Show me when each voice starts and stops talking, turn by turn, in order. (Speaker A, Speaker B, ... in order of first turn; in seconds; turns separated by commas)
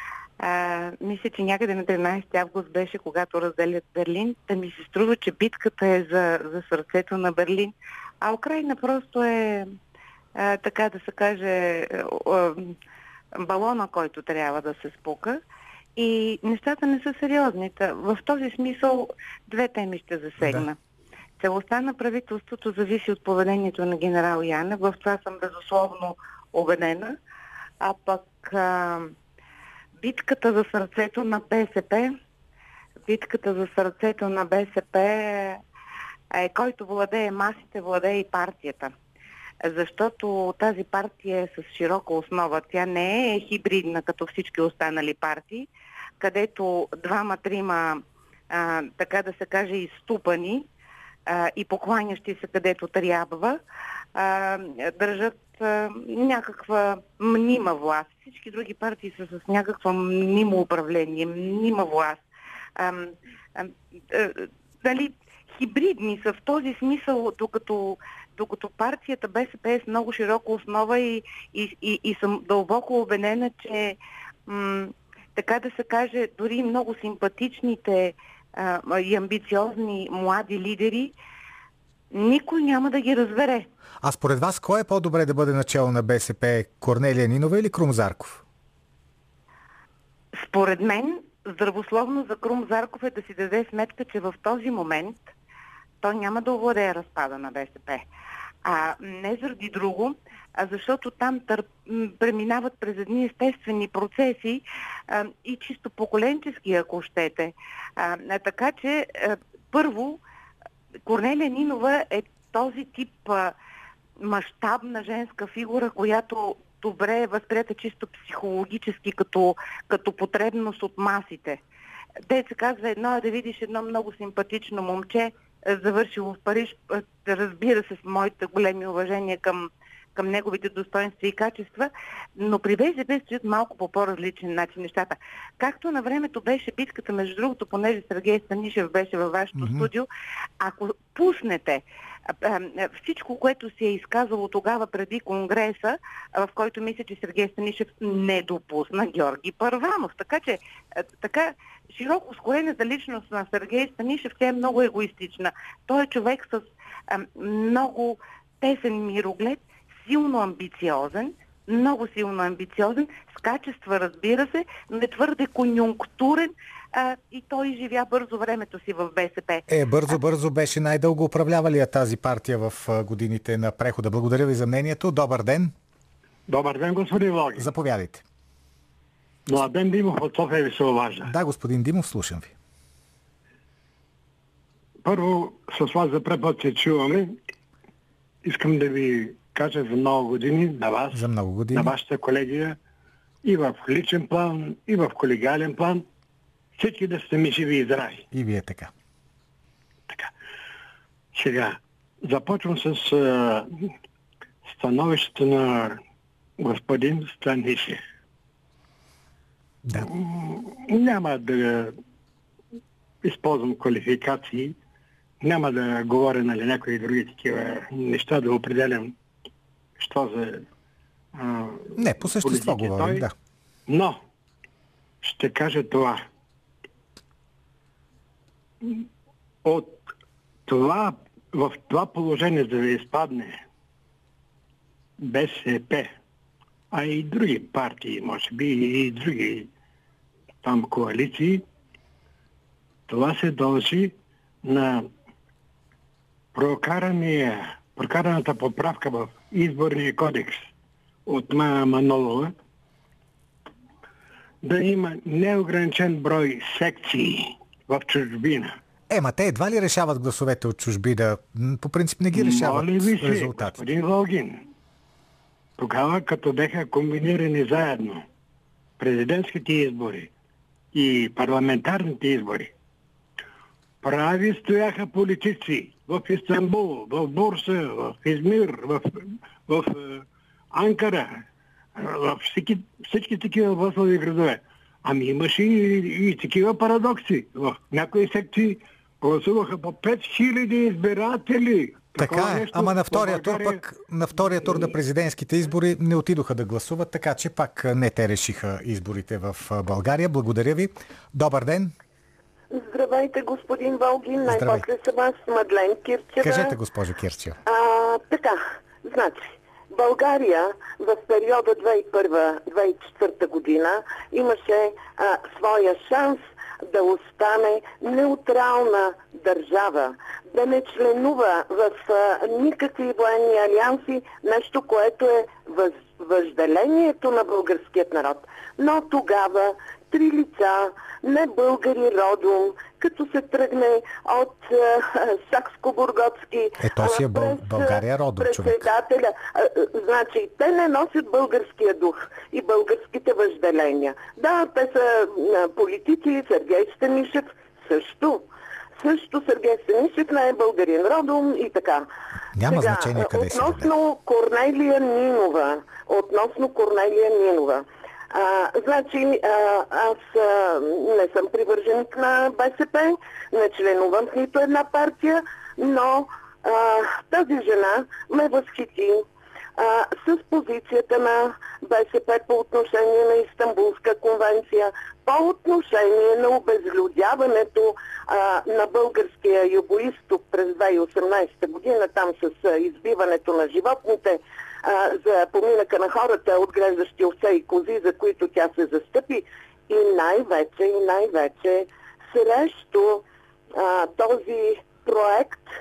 Speaker A: 0.4-9.7, Speaker A: 10.3-12.8, Speaker A: 13.3-15.4, Speaker A: 15.9-20.8, Speaker B: 20.4-20.7, Speaker A: 21.4-27.2, Speaker A: 27.8-29.1, Speaker A: 30.0-32.1, Speaker A: 33.0-35.6, Speaker A: 36.3-38.9, Speaker A: 39.6-50.7, Speaker A: 51.3-53.6, Speaker A: 54.1-62.2, Speaker A: 62.8-81.1, Speaker A: 82.1-83.7, Speaker B: 84.0-88.4, Speaker A: 90.3-95.3, Speaker A: 96.0-98.0, Speaker A: 98.6-110.2, Speaker A: 111.0-113.5, Speaker A: 114.2-121.6, Speaker A: 122.3-140.1, Speaker B: 139.5-139.9, Speaker A: 140.6-141.8, Speaker A: 142.4-150.6, Speaker A: 151.2-169.6, Speaker B: 169.7-175.7, Speaker C: 176.5-177.7, Speaker B: 177.6-178.2, Speaker C: 179.5-181.3, Speaker B: 181.2-182.5, Speaker C: 185.0-187.3, Speaker C: 188.4-192.8, Speaker B: 191.1-191.9, Speaker C: 193.4-196.0, Speaker C: 196.8-198.2, Speaker B: 198.3-198.9, Speaker C: 201.3-203.7, Speaker C: 204.7-206.0, Speaker C: 206.6-208.0, Speaker C: 209.9-211.9, Speaker C: 213.2-214.8, Speaker C: 215.4-219.1, Speaker C: 220.0-220.6, Speaker C: 221.3-223.2, Speaker B: 221.9-223.3, Speaker C: 223.9-224.2, Speaker C: 225.2-226.2, Speaker C: 229.6-230.1, Speaker C: 230.7-233.6, Speaker C: 235.2-236.1, Speaker C: 236.9-239.7, Speaker C: 240.6-241.6, Speaker C: 243.1-245.1, Speaker C: 246.5-250.7, Speaker C: 251.2-252.5, Speaker C: 254.6-258.8, Speaker B: 259.1-263.8, Speaker C: 262.3-264.6, Speaker C: 265.8-268.2, Speaker C: 269.0-270.3, Speaker C: 270.9-272.7, Speaker C: 274.0-293.8, Speaker B: 292.2-301.9, Speaker D: 302.7-306.8, Speaker B: 304.4-304.8, Speaker B: 306.4-307.6, Speaker D: 307.6-352.1, Speaker B: 336.8-338.8, Speaker B: 352.5-353.9, Speaker D: 352.6-369.2, Speaker D: 369.8-395.6